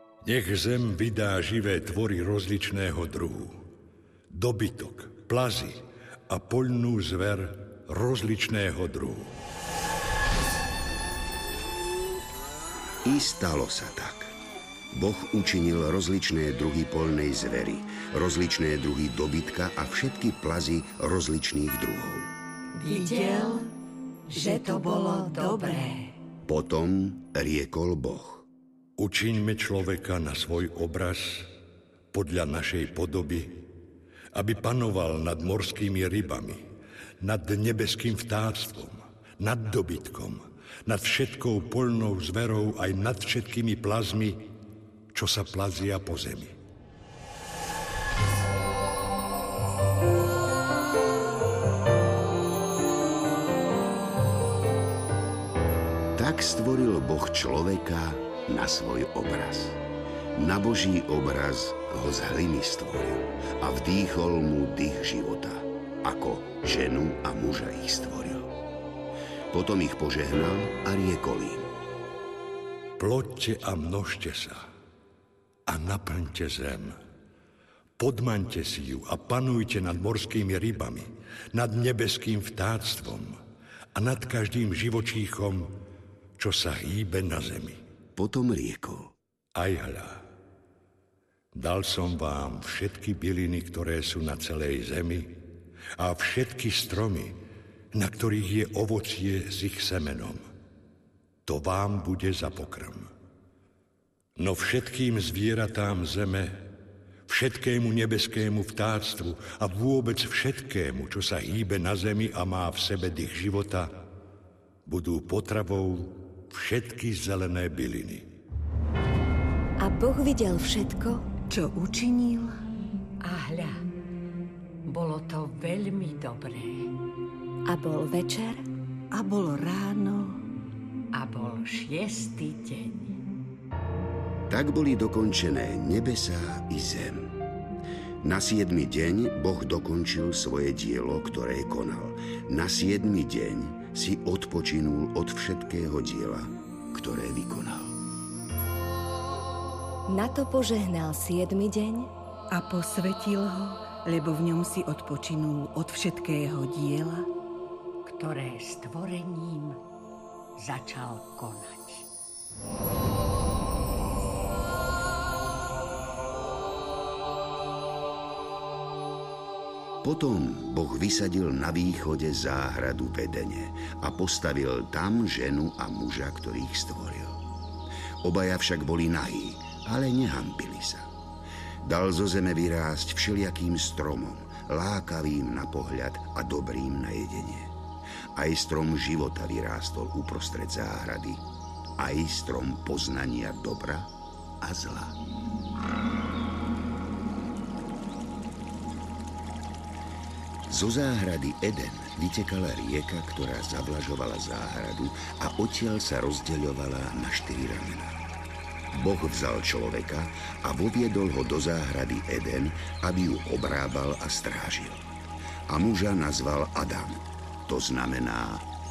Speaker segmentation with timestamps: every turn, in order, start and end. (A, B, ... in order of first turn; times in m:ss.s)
0:00.2-0:03.5 A
0:04.3-0:09.3 A
0:13.0-0:14.3 B
0:14.9-0:22.3 B
0:22.8-0:23.6 C
0:22.9-0:23.7 D
0:24.3-0:26.0 C
0:24.3-0:25.9 D
0:26.5-0:28.5 B
0:29.0-0:31.5 A
0:32.1-0:33.6 A
0:34.4-0:36.6 A
0:37.2-0:44.4 A
0:45.1-0:46.5 A
0:56.2-0:59.8 B
1:00.4-1:08.5 B
1:09.5-1:11.7 B
1:13.0-1:14.6 A
1:15.7-1:17.0 A
1:18.0-1:23.4 A
1:24.0-1:25.7 A
1:26.4-1:27.8 A
1:28.2-1:29.2 B
1:29.6-1:30.2 A
1:31.6-1:35.4 A
1:36.0-1:37.3 A
1:37.9-1:40.4 A
1:41.5-1:43.1 A
1:44.4-1:46.5 A
1:47.3-1:53.9 A
1:54.9-1:58.2 A
1:59.8-2:01.2 E
2:01.5-2:02.6 D
2:03.2-2:03.8 C
2:04.9-2:06.9 C
2:07.7-2:08.6 E
2:09.1-2:10.4 D
2:11.1-2:13.2 C
2:14.5-2:17.4 B
2:18.2-2:28.0 B
2:30.1-2:32.1 E
2:32.5-2:37.3 D
2:38.0-2:39.8 C
2:40.6-2:42.1 C
2:50.0-2:57.4 B
2:58.2-3:01.1 B
3:01.8-3:07.8 B
3:08.4-3:11.4 B
3:12.0-3:15.2 B
3:20.7-3:28.2 B
3:28.9-3:35.0 B
3:35.7-3:38.7 B